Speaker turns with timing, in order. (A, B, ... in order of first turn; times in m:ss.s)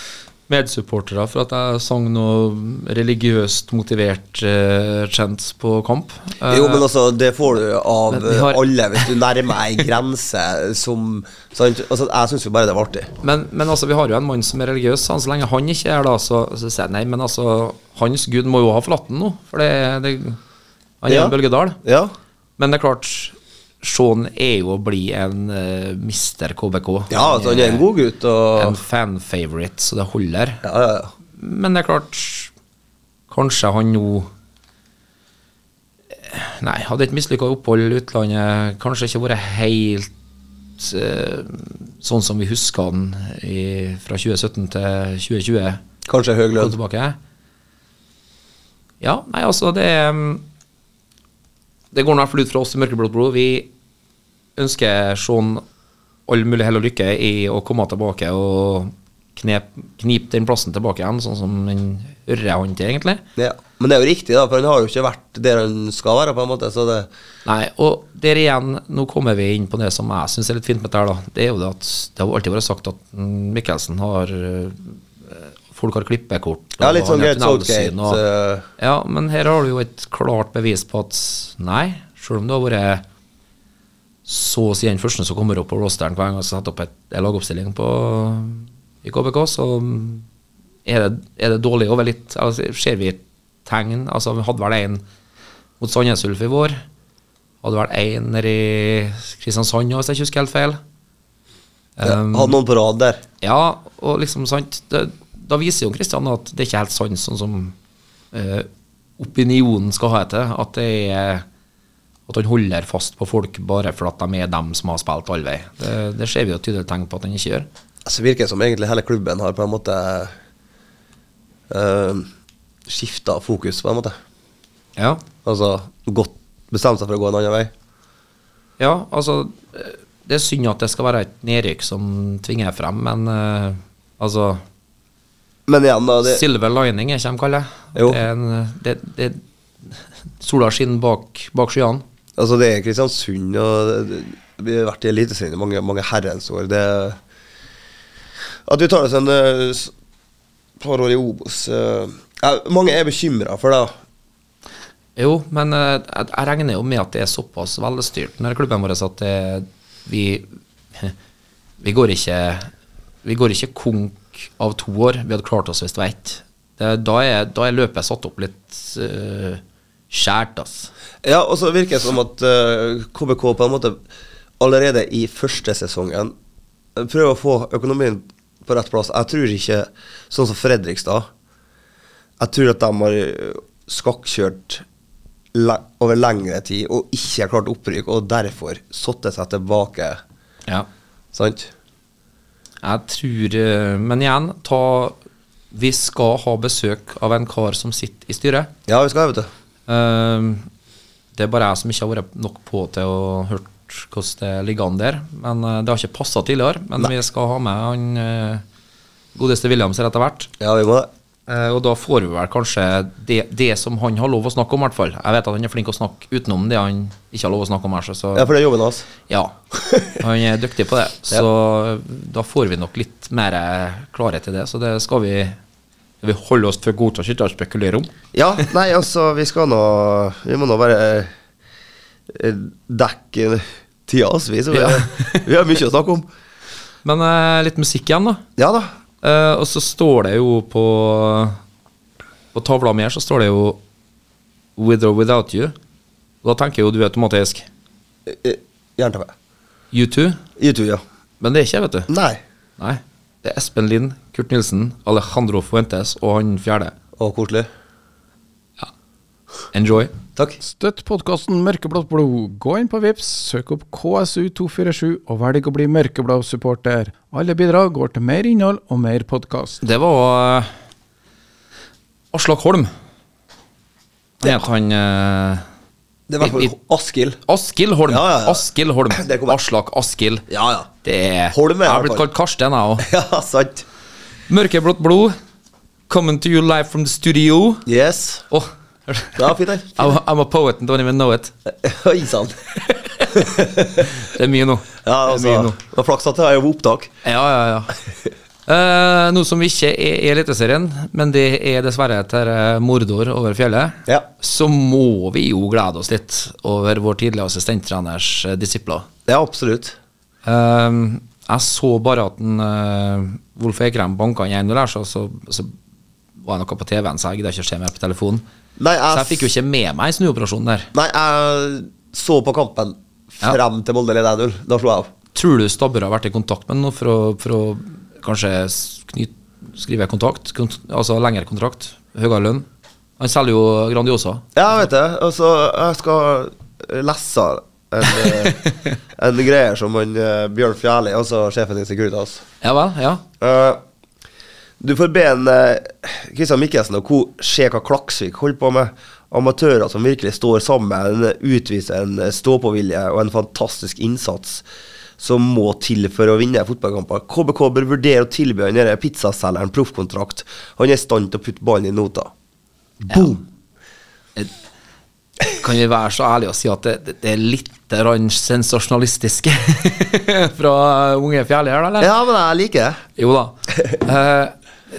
0:00.5-0:06.8 A
0:06.5-0:13.1 B
0:08.1-0:09.1 A
0:13.2-0:20.4 A
0:21.0-0:21.8 A
0:21.1-0:22.1 B
0:22.6-0:27.8 A
0:27.1-0:28.8 B
0:28.6-0:30.6 A
0:30.6-0:31.1 B
0:31.4-0:32.5 A
0:33.3-0:34.3 A
0:36.2-0:40.1 A
0:40.8-0:45.8 A
0:46.1-0:46.7 B
0:46.6-0:47.2 A
0:49.0-0:50.4 A
0:51.9-0:53.7 A
0:54.6-0:55.6 A
0:56.3-1:03.2 A
1:03.4-1:07.1 B
1:07.4-1:18.2 A
1:16.8-1:18.6 B
1:18.8-1:23.0 A
1:24.2-1:30.2 A
1:30.8-1:35.0 A
1:35.8-1:36.8 A
1:37.6-1:40.8 A
1:42.0-1:42.6 A
1:42.0-1:43.2 B
1:43.4-1:47.7 A
1:48.3-1:48.7 A
1:49.2-1:51.4 A
1:52.3-1:57.7 A
1:58.0-2:00.3 B
2:01.7-2:02.3 B
2:02.9-2:04.2 B
2:05.0-2:05.2 A
2:05.4-2:07.7 B
2:08.8-2:14.6 A
2:15.7-2:16.4 B
2:16.2-2:22.0 A
2:17.9-2:18.2 B
2:22.4-2:27.2 B
2:28.6-2:29.9 B
2:30.8-2:33.9 B
2:35.2-2:41.1 A
2:41.8-2:42.7 A
2:43.2-2:50.9 A
2:51.2-2:54.0 B
2:54.6-2:56.3 B
2:57.0-3:01.3 B
3:02.4-3:04.8 B
3:05.5-3:10.2 B
3:11.3-3:11.7 B
3:12.8-3:15.2 A
3:15.7-3:18.7 A
3:18.9-3:19.5 B
3:19.9-3:20.7 A
3:21.4-3:28.6 A
3:29.3-3:30.5 A
3:30.6-3:31.1 B
3:31.5-3:38.5 A
3:38.3-3:39.1 B
3:39.3-3:39.6 A
3:39.7-3:40.2 B
3:40.1-3:45.6 A
3:46.2-3:48.1 A
3:48.3-3:51.3 B
3:52.3-3:56.2 B
3:54.7-3:55.4 A
3:57.0-3:58.4 A
3:58.6-3:58.9 B
3:59.2-4:01.6 A
4:02.5-4:03.8 A
4:04.8-4:05.7 A
4:06.4-4:07.6 A
4:08.2-4:09.3 B
4:09.9-4:10.4 A
4:10.6-4:11.0 B
4:11.4-4:12.1 A
4:12.1-4:12.4 B
4:12.8-4:16.9 A
4:17.2-4:17.7 B
4:19.7-4:20.1 A
4:20.6-4:29.8 C
4:29.8-4:30.7 A
4:32.3-4:32.9 A
4:34.4-4:35.6 A
4:36.3-4:37.4 B
4:36.4-4:36.7 A
4:37.4-4:40.4 A
4:38.1-4:39.6 B
4:40.5-4:40.9 B
4:41.0-4:43.0 A
4:41.5-4:42.2 B
4:43.0-4:43.8 B
4:44.5-4:45.3 A
4:46.1-4:47.8 A
4:47.8-4:48.5 B
4:48.5-4:51.5 A
4:49.4-4:50.2 B
4:51.7-4:52.6 B
4:52.9-4:53.4 A
4:53.3-4:54.1 B
4:54.0-4:55.8 A
4:55.0-4:57.1 B
4:57.2-4:58.0 A
4:58.6-5:09.1 A
5:09.3-5:10.0 B
5:10.4-5:15.7 A
5:16.4-5:18.4 A
5:18.8-5:19.5 B
5:19.1-5:20.9 A
5:20.9-5:25.1 B
5:25.3-5:32.6 A
5:33.2-5:34.4 A
5:34.6-5:38.6 B
5:38.2-5:38.8 A
5:39.2-5:42.4 B
5:42.6-5:43.2 A
5:43.4-5:43.8 B
5:44.8-5:54.6 B
5:55.2-6:02.3 B
6:03.0-6:03.4 B
6:05.5-6:12.1 A
6:12.0-6:13.0 B
6:13.2-6:14.5 A